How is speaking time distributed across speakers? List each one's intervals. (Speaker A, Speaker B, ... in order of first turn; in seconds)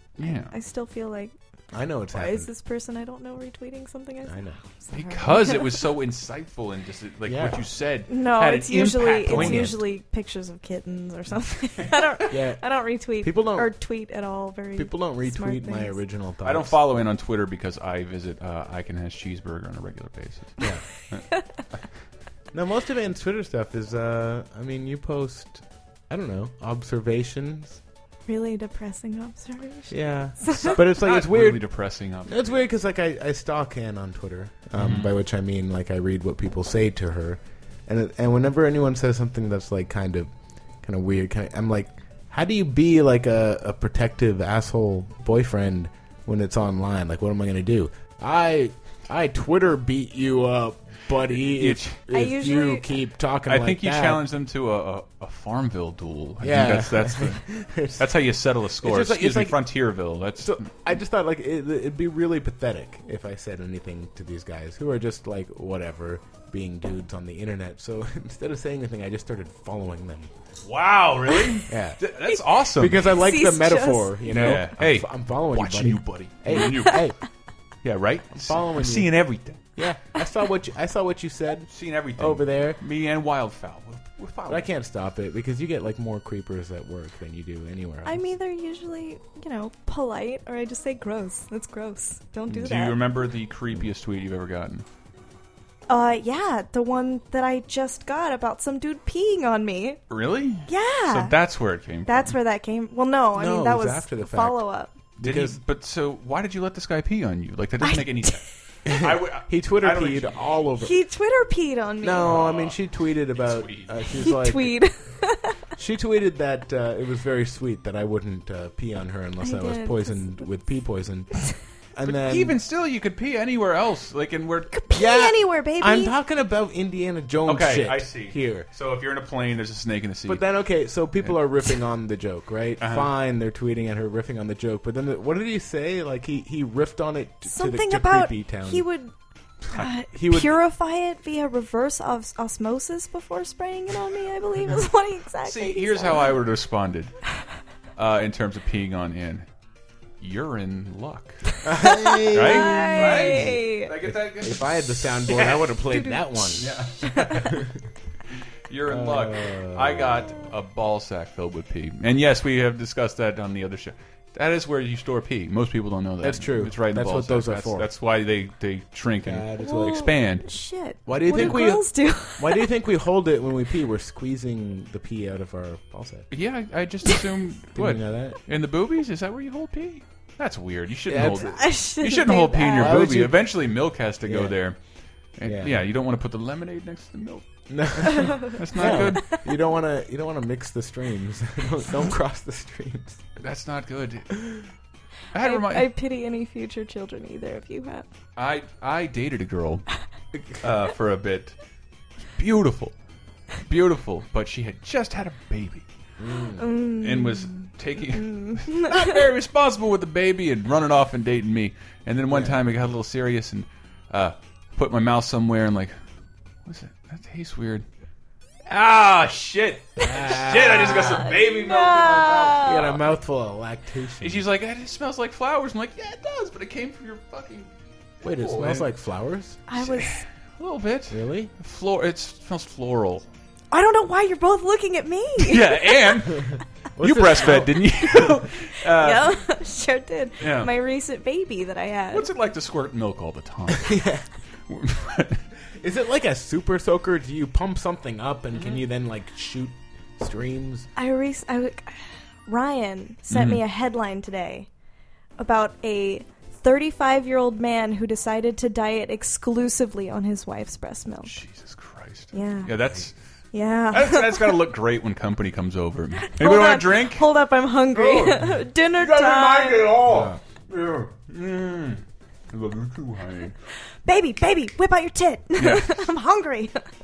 Speaker A: 0.2-0.5, 4.9-9.8, 11.8-12.1, 16.4-21.8, 30.4-32.6, 34.8-35.1, 51.4-52.0, 53.5-60.6, 70.6-73.1, 74.3-77.1, 77.8-79.6, 81.7-84.7, 92.5-94.8, 100.1-102.3, 105.2-110.4, 112.2-112.8, 113.3-113.9, 122.0-124.7, 127.5-130.4, 132.8-133.1, 145.4-147.2, 148.0-149.5, 150.2-151.6, 152.3-155.8, 156.4-157.7, 158.7-170.5, 176.3-184.8, 185.4-189.4, 193.4-194.5, 195.3-195.9, 198.4-199.9, 200.5-201.6, 202.3-202.9, 203.6-205.9, 207.0-215.9, 216.7-217.8, 218.7-223.0, 224.2-227.7, 228.2-228.9, 229.9-233.3, 235.4-239.4, 240.4-240.7, 242.1-244.0, 244.7-245.4, 248.6-248.8, 253.3-253.6, 261.3-263.1, 263.9-267.3, 267.9-273.6, 275.6-276.1
Speaker B: 0.5-1.3, 2.1-5.7, 8.1-16.0, 28.3-30.8, 52.1-52.9, 73.0-74.2, 76.6-76.8, 88.0-93.0, 95.9-100.0, 100.7-101.4, 102.1-104.9, 107.8-108.4, 110.8-112.3, 114.2-115.6, 119.4-120.5, 124.7-126.2, 137.5-139.1, 139.7-146.3, 151.8-153.9, 155.9-156.2, 157.0-157.3, 169.6-172.7, 181.4-183.0, 188.1-189.4, 195.4-198.1, 206.6-208.9, 220.5-222.9, 229.7-230.2, 233.7-236.0, 238.9-242.3, 251.0-254.7, 255.4-261.3, 262.3-262.7, 263.5-264.6, 266.2-270.0, 274.0-276.9
Speaker C: 1.7-2.5, 4.3-4.6, 7.3-7.7, 9.2-9.8, 12.3-12.6, 13.2-13.7, 14.8-16.8, 20.6-20.9, 22.5-27.8, 29.9-31.7, 32.2-40.3, 40.8-54.3, 56.4-58.2, 58.8-59.7, 60.4-70.3, 71.7-72.0, 72.8-77.2, 78.3-79.2, 79.8-82.8, 84.5-88.2, 103.3-104.6, 105.2-105.6, 108.9-111.0, 112.0-114.8, 115.8-122.6, 124.9-128.7, 130.3-138.9, 140.1-140.6, 151.7-156.7, 157.4-157.7, 158.9-160.2, 166.2-167.9, 169.2-170.1, 171.1-176.3, 177.8-178.4, 181.1-181.6, 182.7-183.7, 184.2-184.6, 185.4-185.8, 187.7-193.2, 206.2-206.7, 212.3-212.6, 220.0-221.3, 222.6-224.4, 228.2-229.6, 231.1-231.5, 237.0-238.3, 243.7-244.3, 245.7-250.9, 270.0-270.4